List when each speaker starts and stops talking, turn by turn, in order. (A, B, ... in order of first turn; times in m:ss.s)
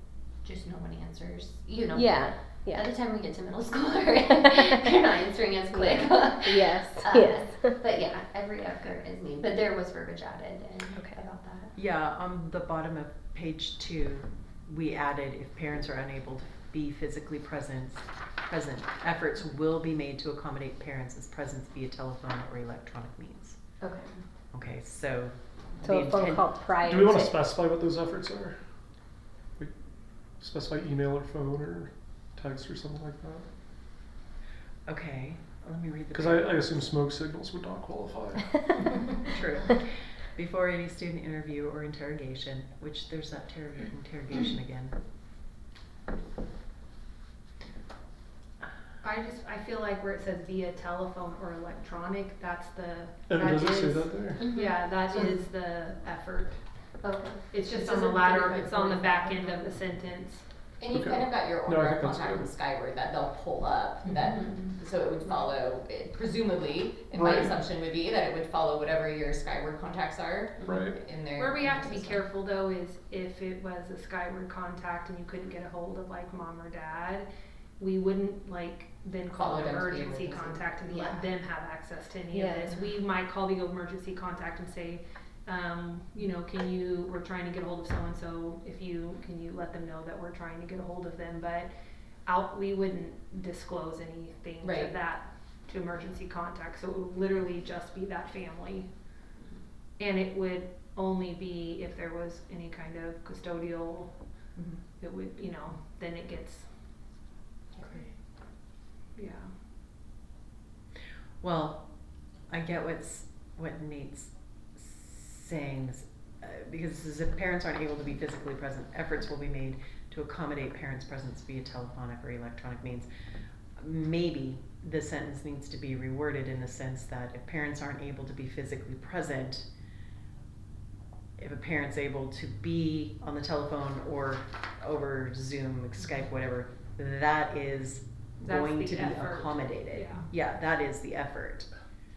0:00.4-0:11.7 A
0:01.9-0:02.9 B
0:04.5-0:04.9 B
0:05.7-0:07.8 B
0:10.9-0:11.2 B
0:11.8-0:23.6 C
0:23.8-0:24.2 A
0:24.5-0:26.6 C
0:25.8-0:27.5 B
0:26.8-0:28.6 D
0:30.4-0:33.5 D
0:34.9-0:36.9 C
0:36.1-0:38.5 D
0:39.3-0:45.0 C
0:49.0-0:56.6 E
0:53.3-0:54.4 D
0:54.4-0:55.3 A
0:57.0-0:59.3 A
0:57.5-1:00.5 E
0:57.8-0:59.4 F
1:00.8-1:12.2 F
1:00.9-1:02.6 D
1:04.4-1:04.7 A
1:07.1-1:07.6 D
1:10.6-1:11.0 D
1:11.4-1:17.3 E
1:17.8-1:31.7 E
1:19.3-1:21.2 F
1:22.3-1:22.7 B
1:32.3-1:38.9 E
1:34.6-1:34.9 F
1:40.0-1:44.1 E
1:45.0-1:46.7 E
1:47.8-1:48.0 F
1:49.2-1:49.5 E
1:51.4-1:51.9 C
1:52.5-2:03.1 C
2:03.8-2:09.7 C
2:11.4-2:21.7 C
2:18.4-2:20.3 E